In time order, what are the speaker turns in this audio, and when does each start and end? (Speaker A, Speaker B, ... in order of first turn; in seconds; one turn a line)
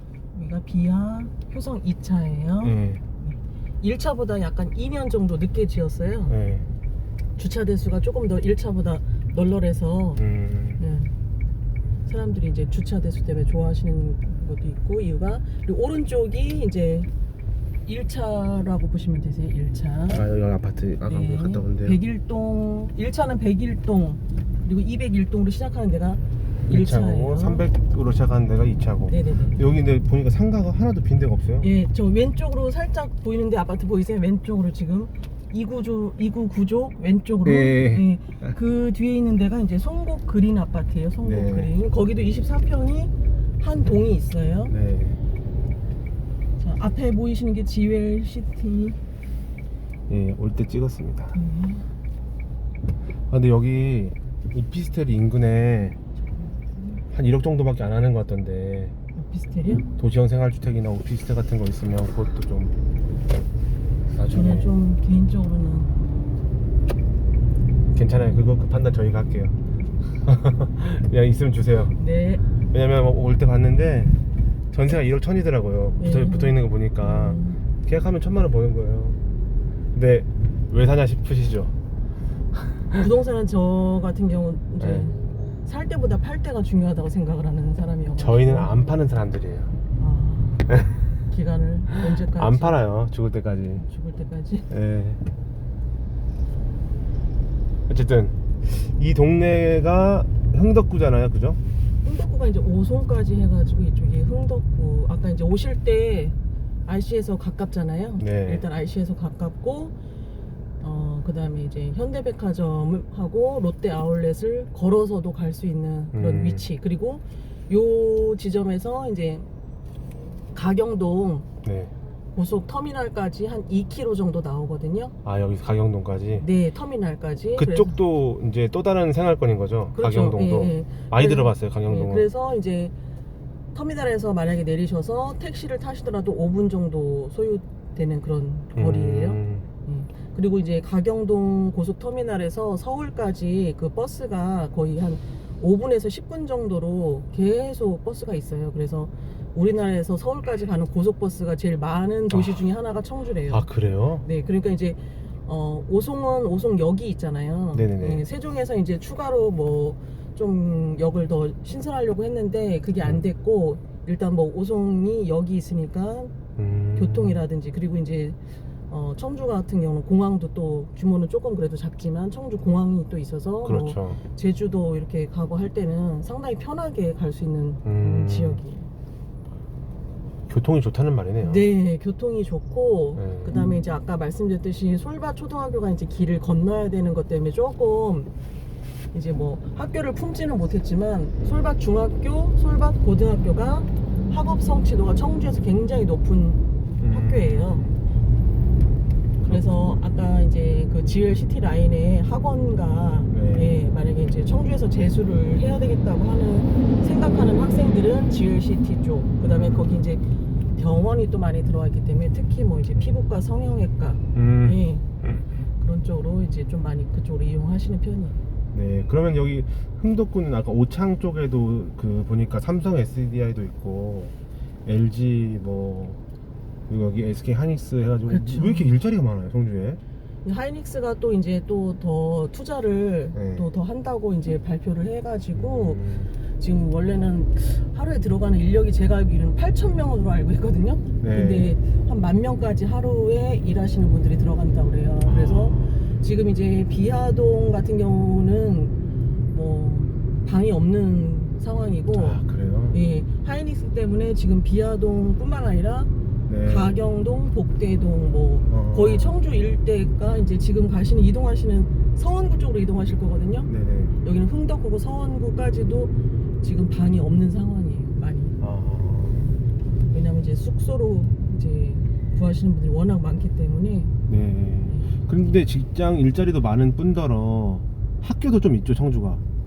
Speaker A: 0.3-6.3
Speaker B: 2.6-3.0
Speaker B: 6.3-6.7
Speaker A: 7.4-10.2
Speaker B: 10.2-10.8
Speaker A: 10.8-11.1
Speaker A: 12.1-17.1
Speaker A: 17.9-20.2
Speaker B: 20.1-22.0
Speaker A: 21.1-27.6
Speaker B: 26.6-31.7
Speaker A: 29.1-29.6
Speaker A: 31.6-44.7
Speaker B: 37.4-38.5
Speaker B: 41.2-41.7
Speaker B: 44.7-45.2
Speaker A: 46.6-49.0
Speaker B: 50.1-51.3
Speaker A: 51.3-51.9
Speaker B: 53.3-56.0
Speaker B: 57.1-58.9
Speaker A: 59.1-59.9
Speaker B: 59.9-62.7
Speaker B: 64.1-64.7
Speaker A: 64.3-66.0
Speaker B: 67.9-69.6
Speaker B: 70.2-72.0
Speaker A: 72.0-72.4
Speaker B: 72.7-74.2
Speaker B: 74.7-79.2
Speaker A: 76.0-77.6
Speaker B: 79.9-81.7
Speaker A: 82.9-88.9
Speaker B: 84.8-85.1
Speaker B: 88.2-89.7
Speaker A: 90.0-90.7
Speaker B: 90.7-91.0
Speaker A: 91.3-92.8
Speaker B: 92.2-93.8
Speaker A: 93.8-94.7
Speaker B: 94.7-95.2
Speaker B: 97.9-101.6
Speaker A: 102.0-106.3
Speaker A: 106.8-109.9
Speaker B: 108.2-108.6
Speaker A: 110.8-119.5
Speaker B: 116.1-116.7
Speaker A: 120.5-121.5
Speaker B: 121.6-121.9
Speaker A: 122.3-125.1
Speaker B: 125.2-126.5
Speaker A: 126.4-128.0
Speaker B: 127.5-132.3
Speaker A: 129.9-132.9
Speaker A: 133.7-153.7
Speaker B: 138.7-139.7
Speaker B: 152.3-152.6
Speaker B: 153.5-154.2
Speaker A: 154.2-166.4
Speaker B: 157.7-158.2
Speaker B: 166.6-167.4
Speaker A: 166.9-168.4
Speaker A: 168.9-178.9
Speaker B: 173.6-174.2
Speaker B: 177.8-178.6
Speaker B: 180.5-181.7
Speaker A: 181.4-188.3
Speaker B: 183.2-183.8
Speaker A: 189.1-197.8
Speaker B: 191.4-191.7
Speaker B: 197.0-197.9
Speaker A: 199.4-210.2
Speaker B: 203.3-203.7
Speaker B: 209.4-209.9
Speaker A: 210.8-215.0
Speaker B: 214.3-215.4
Speaker A: 215.8-218.4
Speaker B: 218.7-224.3
Speaker B: 224.8-226.2
Speaker B: 226.9-230.0
Speaker A: 228.2-228.9
Speaker A: 230.4-248.9
Speaker B: 233.3-233.7
Speaker B: 235.5-236.3
Speaker B: 241.2-241.8
Speaker B: 245.2-246.0
Speaker A: 249.5-252.4
Speaker B: 252.1-253.0
Speaker A: 252.9-256.1
Speaker B: 256.5-256.9
Speaker A: 256.6-263.7
Speaker B: 258.7-259.4
Speaker B: 263.6-264.1
Speaker A: 264.2-268.6
Speaker B: 268.6-269.5
Speaker A: 270.1-274.1
Speaker B: 274.3-279.4